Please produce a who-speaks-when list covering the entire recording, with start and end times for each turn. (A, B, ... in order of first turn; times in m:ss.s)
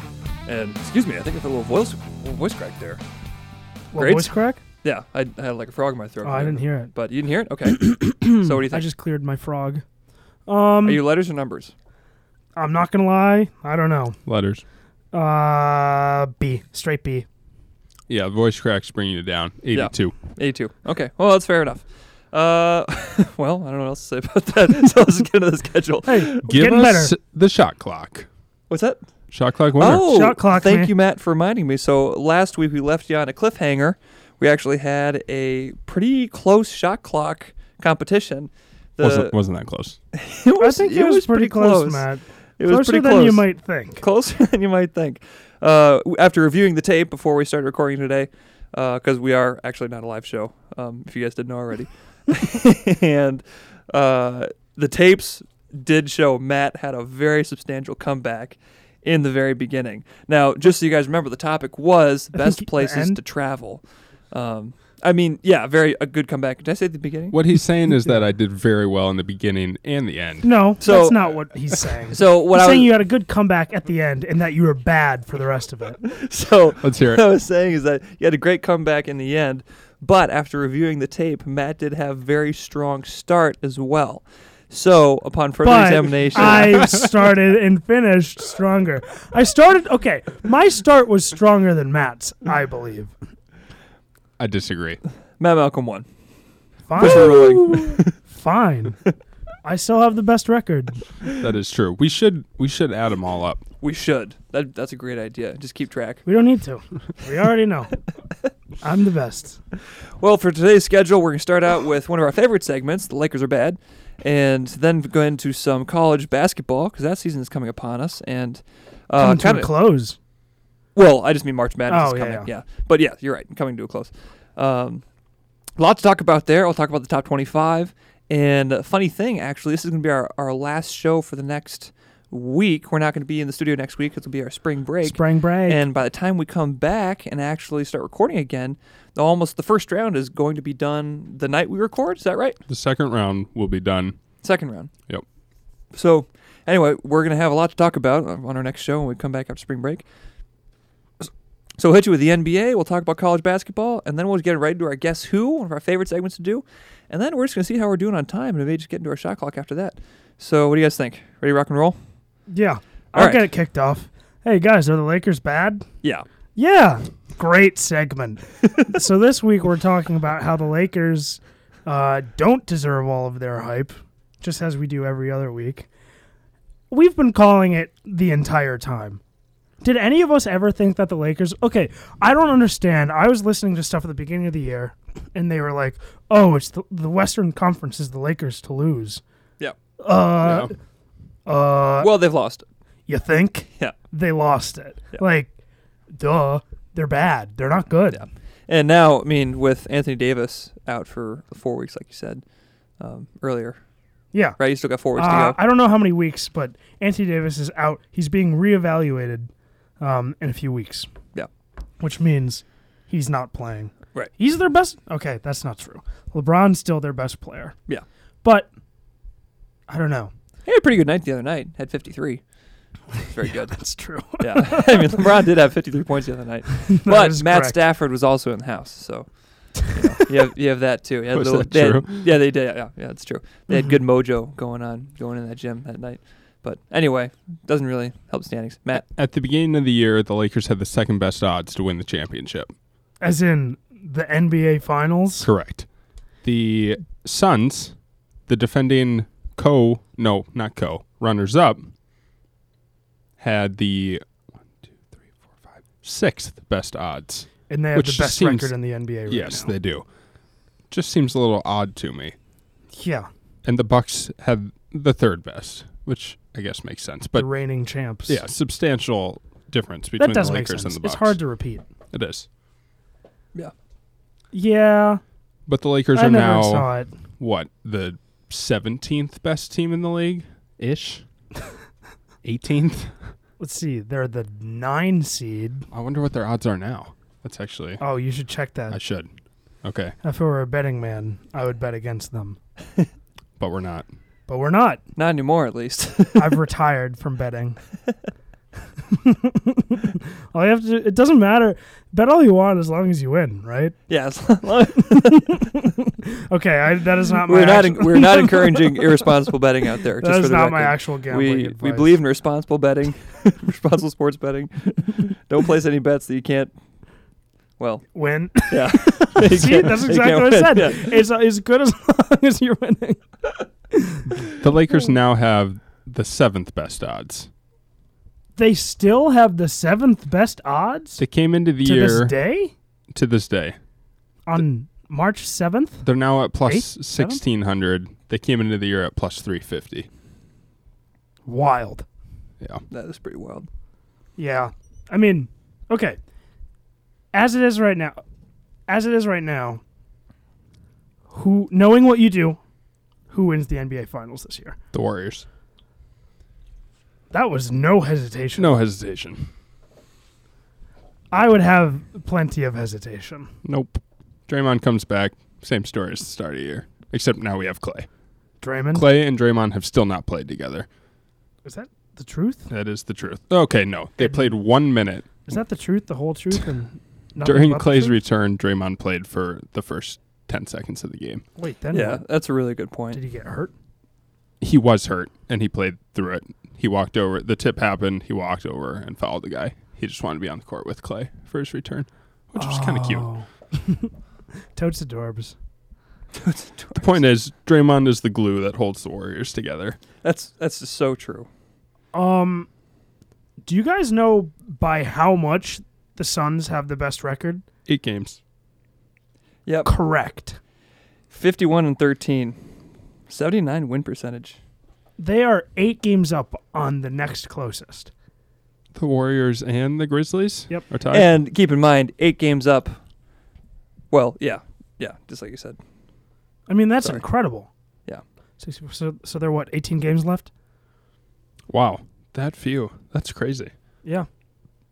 0:00.4-0:03.0 A
0:03.9-0:04.6 B
0:04.0-0:04.3 A
0:04.8-0:08.8 A
0:06.2-0:06.9 B
0:07.7-0:09.8 B
0:10.5-0:11.0 B
0:10.8-0:11.7 A
0:12.6-0:14.2 B
0:14.2-0:14.6 C
0:15.1-0:17.2 B
0:18.1-0:20.1 C
0:19.7-0:26.6 A
0:26.0-0:27.1 B
0:26.4-0:28.3 C
0:28.7-0:29.0 A
0:29.3-0:30.1 C
0:29.8-0:39.3 A
0:29.9-0:30.9 B
0:39.0-0:40.0 C
0:40.1-0:42.0 A
0:40.6-0:44.0 B
0:42.6-0:43.4 A
0:44.0-1:07.4 A
1:02.3-1:03.2 B
1:07.3-1:10.5 C
1:10.4-1:16.0 B
1:10.8-1:11.3 A
1:12.1-1:12.9 A
1:16.0-1:26.9 A
1:16.8-1:17.2 C
1:25.6-1:33.1 B
1:34.4-1:35.0 C
1:35.4-1:36.0 A
1:36.9-1:37.4 B
1:37.0-1:38.0 A
1:37.0-1:38.0 C
1:38.3-1:39.0 B
1:39.6-1:41.0 B
1:41.4-1:43.6 C
1:43.8-1:46.2 A
1:46.2-1:48.0 B
1:48.8-1:49.6 B
1:50.2-1:59.7 A
1:59.2-2:00.2 B
2:00.9-2:05.0 A
2:01.9-2:02.5 B
2:05.8-2:22.6 A
2:15.0-2:15.8 B
2:22.7-2:24.2 C
2:24.4-2:24.9 A
2:25.9-2:30.0 A
2:31.8-2:42.0 A
2:42.5-2:45.8 B
2:43.1-2:43.4 A
2:46.6-2:55.9 B
2:56.9-2:59.2 B
2:59.8-3:09.2 B
3:10.0-3:10.7 B
3:10.4-3:10.7 C
3:11.4-3:12.1 B
3:12.0-3:12.6 A
3:13.1-3:15.5 B
3:16.2-3:18.2 B
3:18.1-3:22.4 A
3:23.0-3:23.8 A
3:24.3-3:24.6 B
3:24.6-3:25.6 A
3:25.2-3:31.1 B
3:32.0-3:37.8 B
3:38.4-3:38.7 B
3:39.9-3:40.3 B
3:40.6-3:42.4 A
3:43.2-3:43.8 A
3:43.7-3:45.2 B
3:44.4-3:59.0 A
3:46.8-3:47.8 B
3:51.3-3:52.2 C
3:59.0-4:02.7 C
4:03.2-4:05.5 B
4:05.4-4:05.9 C
4:06.4-4:07.9 C
4:08.5-4:11.9 C
4:13.4-4:14.2 C
4:16.0-4:18.7 C
4:17.7-4:19.7 B
4:19.3-4:20.0 C
4:20.9-4:22.3 C
4:22.9-4:23.3 B
4:23.6-4:27.5 C
4:27.4-4:28.4 B
4:28.3-4:31.4 C
4:30.2-4:31.8 B
4:32.1-4:32.5 C
4:34.5-4:35.2 B
4:35.7-4:36.9 C
4:36.1-4:37.1 B
4:37.4-4:41.2 C
4:42.4-4:43.2 C
4:43.6-4:45.9 B
4:45.9-4:48.0 C
4:48.0-4:49.0 B
4:48.9-4:49.3 C
4:49.8-4:50.1 C
4:50.2-4:52.6 B
4:53.6-4:54.0 C
4:54.5-4:55.0 B
4:55.2-4:56.6 A
4:56.4-4:57.8 B
4:59.1-5:03.9 B
5:04.1-5:05.6 A
5:05.0-5:09.1 B
5:07.5-5:16.7 A
5:10.2-5:12.2 B
5:17.8-5:18.1 A
5:18.1-5:23.2 B
5:18.6-5:21.2 A
5:23.9-5:24.3 B
5:24.5-5:27.5 C
5:28.6-5:31.2 B
5:31.2-5:32.3 C
5:31.8-5:32.7 B
5:33.1-5:33.8 C
5:34.5-5:36.0 B
5:36.0-5:40.1 C
5:36.6-5:37.4 B
5:41.4-5:42.0 B
5:42.9-5:43.7 A
5:44.4-5:46.2 B
5:47.3-5:48.2 B
5:48.9-5:49.8 B
5:51.3-5:52.6 B
5:53.3-5:54.8 B
5:54.9-5:55.4 C
5:57.3-5:58.8 B
5:58.6-5:59.5 C
6:01.3-6:03.5 B
6:03.6-6:08.1 C
6:08.6-6:09.1 B
6:08.9-6:10.9 C
6:11.6-6:12.7 B
6:12.7-6:15.3 C
6:14.2-6:14.5 B
6:15.5-6:18.2 B
6:17.4-6:21.4 C
6:21.6-6:22.2 B
6:21.9-6:23.2 A
6:23.1-6:23.7 B
6:24.6-6:33.3 C
6:32.6-6:34.1 B
6:34.7-6:35.5 B
6:36.3-6:37.2 A
6:37.0-6:40.0 C
6:40.2-6:41.5 A
6:42.1-6:42.7 B
6:43.6-6:47.6 B
6:47.9-6:48.4 C
6:49.8-6:50.6 B
6:51.3-6:52.6 A
6:53.3-6:54.6 A
6:55.2-6:58.1 B
6:58.9-7:01.3 C
7:01.1-7:03.0 A
7:04.1-7:05.8 A
7:06.7-7:07.7 B
7:08.6-7:10.5 B
7:11.7-7:13.7 C